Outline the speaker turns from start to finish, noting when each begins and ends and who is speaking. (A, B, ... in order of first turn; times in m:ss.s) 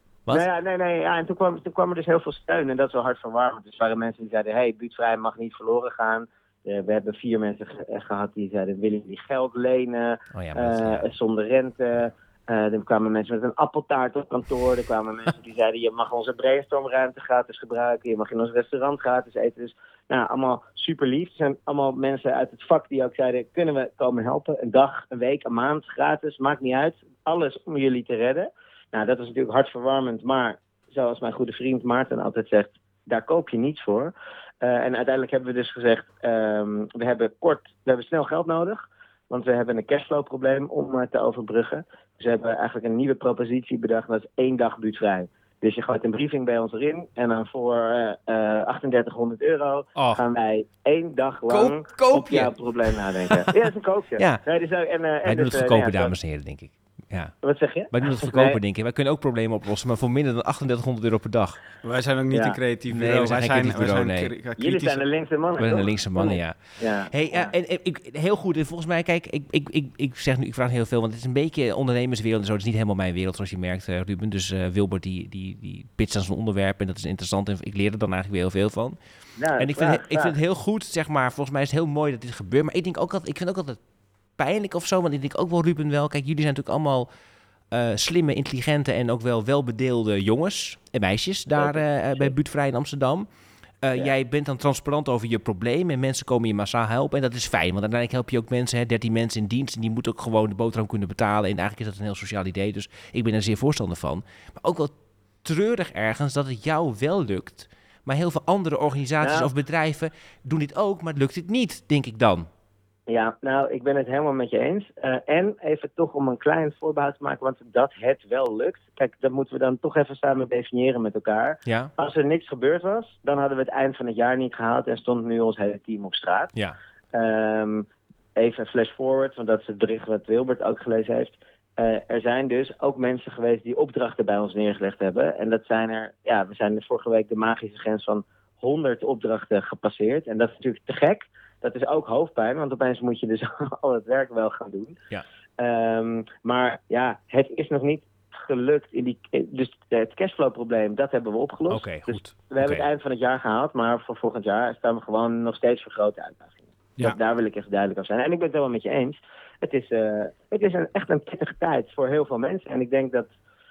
0:00.3-0:56.1 A
0:10.3-0:11.1 B
0:50.0-0:50.2 B
0:51.5-0:52.5 B
0:53.3-0:53.6 B
0:55.2-0:57.4 B
0:57.4-0:58.6 A
0:57.9-1:01.6 B
1:01.8-1:05.0 C
1:02.3-1:02.6 A
1:02.9-1:04.3 B
1:04.6-1:07.5 A
1:05.6-1:19.0 B
1:19.4-1:20.3 A
1:19.6-1:23.8 B
1:24.4-1:27.1 B
1:27.7-1:33.3 B
1:31.5-1:32.3 A
1:33.8-1:44.9 B
1:45.4-1:52.5 B
1:49.2-1:49.5 A
1:53.1-2:06.5 A
2:07.1-2:24.9 A
2:25.6-2:43.3 A
2:31.7-2:32.9 B